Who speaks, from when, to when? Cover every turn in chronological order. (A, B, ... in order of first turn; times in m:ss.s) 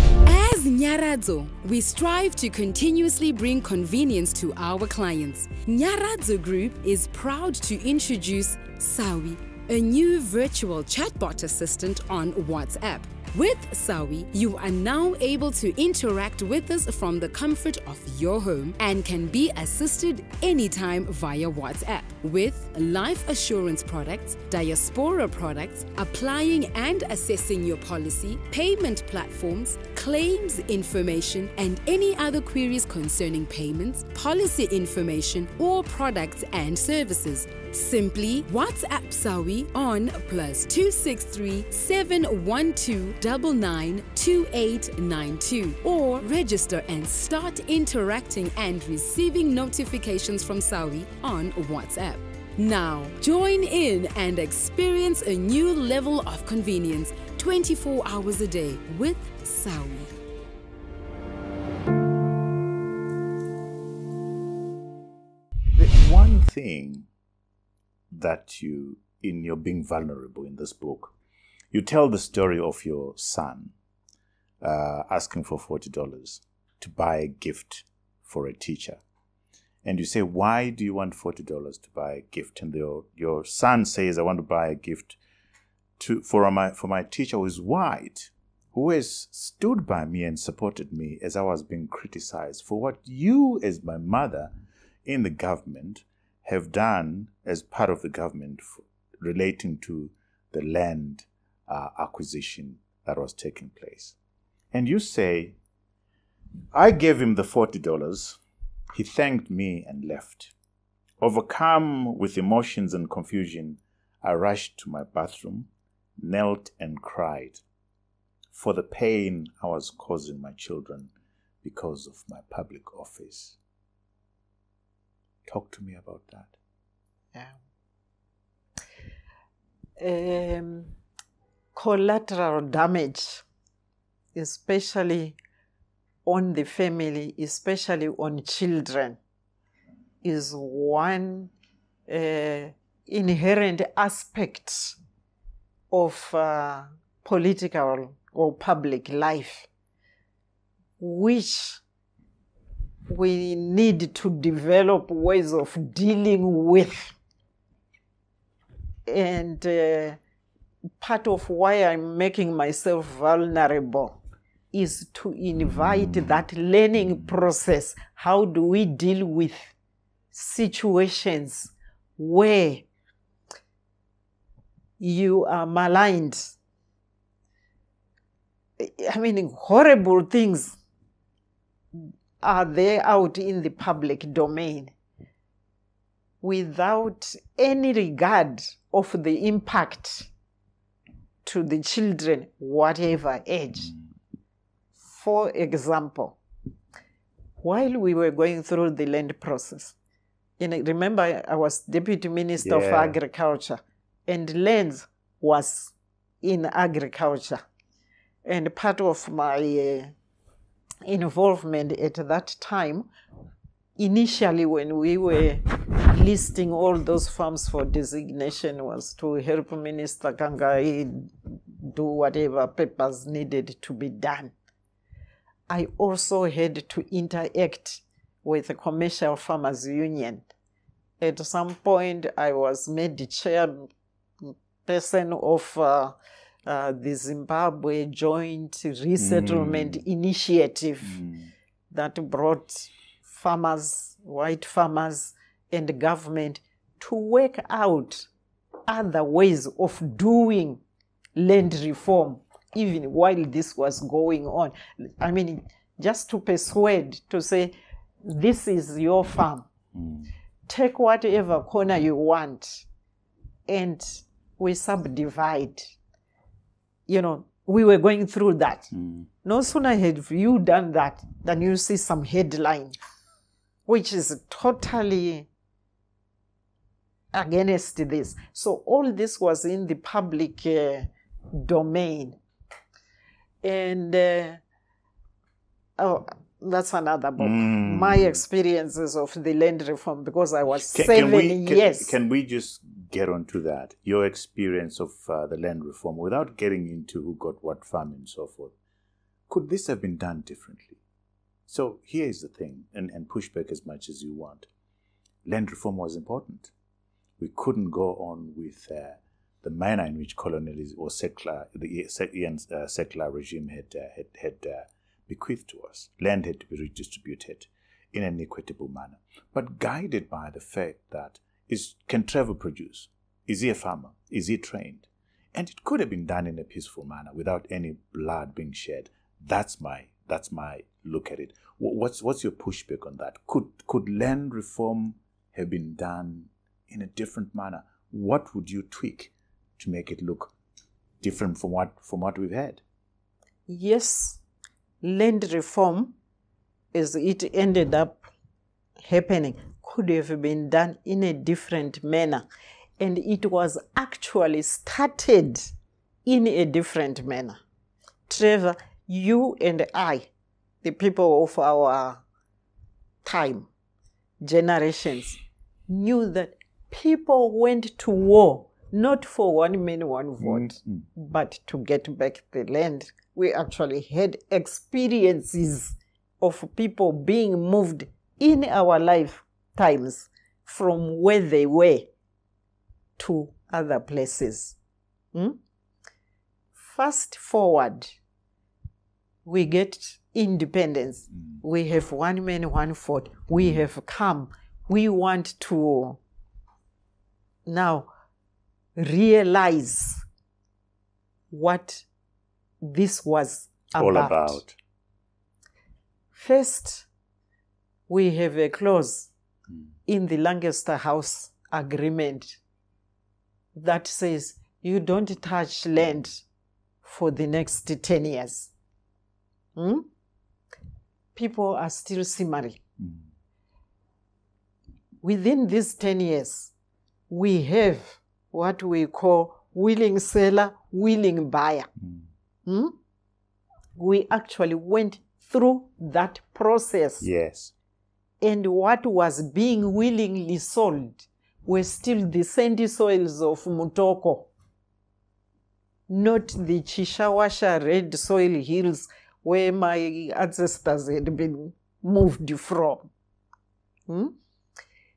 0:00.2-1:00.1 A
1:05.7-1:07.1 B
1:08.1-1:11.1 B
1:11.7-1:13.7 B
1:14.6-1:19.0 B
1:19.8-1:25.2 B
1:26.0-1:34.5 B
1:35.0-1:44.2 B
1:44.7-1:45.6 B
1:46.7-1:48.4 B
1:48.9-1:50.5 B
1:51.2-1:57.6 B
1:58.5-2:01.1 B
2:01.6-2:03.6 B
2:05.5-2:06.6 B
2:10.0-2:11.0 C
2:11.7-2:13.4 C
2:14.4-2:15.4 C
2:16.2-2:19.2 C
2:20.2-2:21.5 C
2:22.1-2:25.0 C
2:25.9-2:29.7 C
2:31.0-2:31.8 C
2:33.1-2:37.2 C
2:39.1-2:40.2 C
2:41.0-2:44.2 C
2:44.7-2:49.7 C
2:50.3-2:52.9 C
2:55.0-2:56.5 C
2:58.8-3:00.8 C
3:02.0-3:04.9 C
3:06.4-3:10.3 C
3:11.4-3:13.9 C
3:15.0-3:16.4 C
3:17.6-3:20.0 C
3:20.6-3:27.6 C
3:22.6-3:23.2 B
3:28.4-3:30.1 C
3:31.0-3:33.1 C
3:34.0-3:44.5 C
3:45.7-3:50.5 C
3:51.2-3:53.9 C
3:54.4-4:01.2 C
3:59.2-4:00.0 B
4:01.0-4:01.5 B
4:01.9-4:08.3 C
4:08.9-4:10.8 C
4:11.4-4:19.7 C
4:19.9-4:20.3 B
4:20.7-4:22.9 C
4:23.7-4:25.9 C
4:27.1-4:28.9 C
4:28.9-4:29.3 B
4:29.4-4:32.9 C
4:33.9-4:35.5 C
4:37.3-4:42.4 C
4:43.6-4:44.6 C
4:46.0-4:52.2 C
4:47.4-4:48.4 B
4:50.9-4:58.7 B
4:59.5-5:01.0 B
5:01.7-5:04.7 B
5:05.4-5:06.7 B
5:07.4-5:40.5 B
5:41.2-5:42.8 B
5:43.7-5:44.4 C
5:45.0-5:46.2 C
5:46.9-5:48.3 C
5:49.0-5:52.4 C
5:53.0-5:55.6 C
5:56.2-5:57.6 C
5:58.3-6:00.3 C
6:00.8-6:02.2 C
6:03.2-6:03.7 C
6:04.4-6:22.1 C
6:10.4-6:11.0 B
6:23.2-6:24.8 C
6:26.7-6:28.1 C
6:29.4-6:36.2 C
6:37.7-6:38.1 C
6:39.0-6:40.2 C
6:41.5-6:42.0 C
6:42.8-6:44.6 C
6:44.0-6:44.8 B
6:46.3-6:47.1 C
6:48.1-6:49.3 C
6:50.1-6:52.6 C
6:53.8-6:56.4 C
6:57.0-6:58.7 C
6:59.8-7:00.1 C
7:01.4-7:02.8 C
7:05.2-7:06.7 C
7:07.3-7:11.9 C
7:12.0-7:12.3 B
7:12.7-7:13.0 C
7:14.0-7:17.3 C
7:17.2-7:17.7 B
7:18.4-7:24.5 C
7:26.1-7:33.0 C
7:34.1-7:34.4 C